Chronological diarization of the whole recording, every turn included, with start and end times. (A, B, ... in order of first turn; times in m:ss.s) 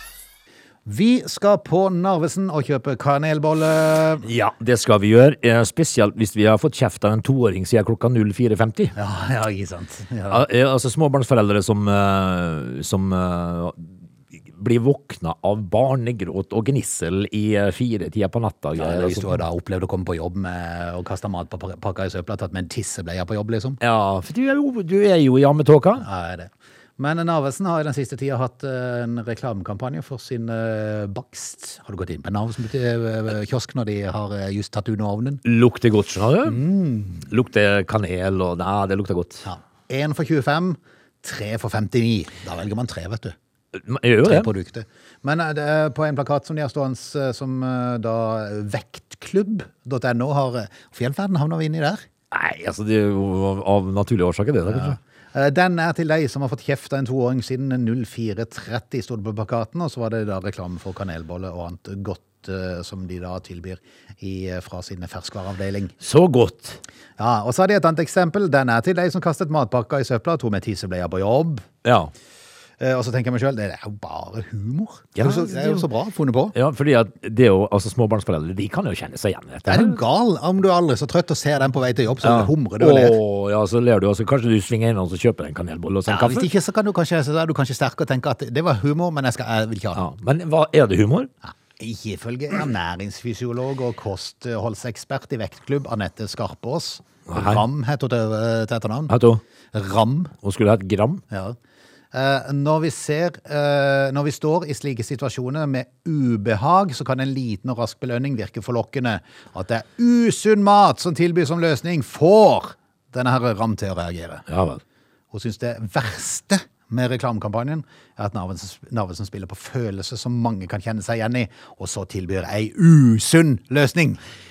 0:00.8-0:04.2 A
0:04.2-0:08.9 B
0:08.9-0:10.4 A
0:10.3-0:13.9 B
0:14.5-0:19.4 B
0:18.8-0:23.8 A
0:23.8-0:26.0 B
0:26.0-0:35.4 A
0:35.4-0:36.6 B
0:36.4-0:37.2 A
0:37.2-0:39.4 B
0:39.4-0:43.3 A
0:43.7-0:44.5 B
0:44.2-0:52.0 A
0:52.3-0:55.0 B
0:54.7-1:05.9 A
1:06.0-1:06.8 B
1:07.2-1:11.7 A
1:11.8-1:12.1 B
1:12.8-1:16.5 A
1:15.2-1:15.9 B
1:16.5-1:20.0 B
1:19.6-1:23.2 A
1:22.2-1:26.5 B
1:26.1-1:30.0 A
1:29.9-1:31.3 B
1:31.4-1:39.1 A
1:37.3-1:37.6 B
1:39.1-1:39.4 B
1:39.7-1:40.3 A
1:40.4-1:41.2 B
1:41.3-1:41.6 A
1:42.1-1:54.5 A
1:54.5-1:54.8 B
1:55.3-2:04.2 A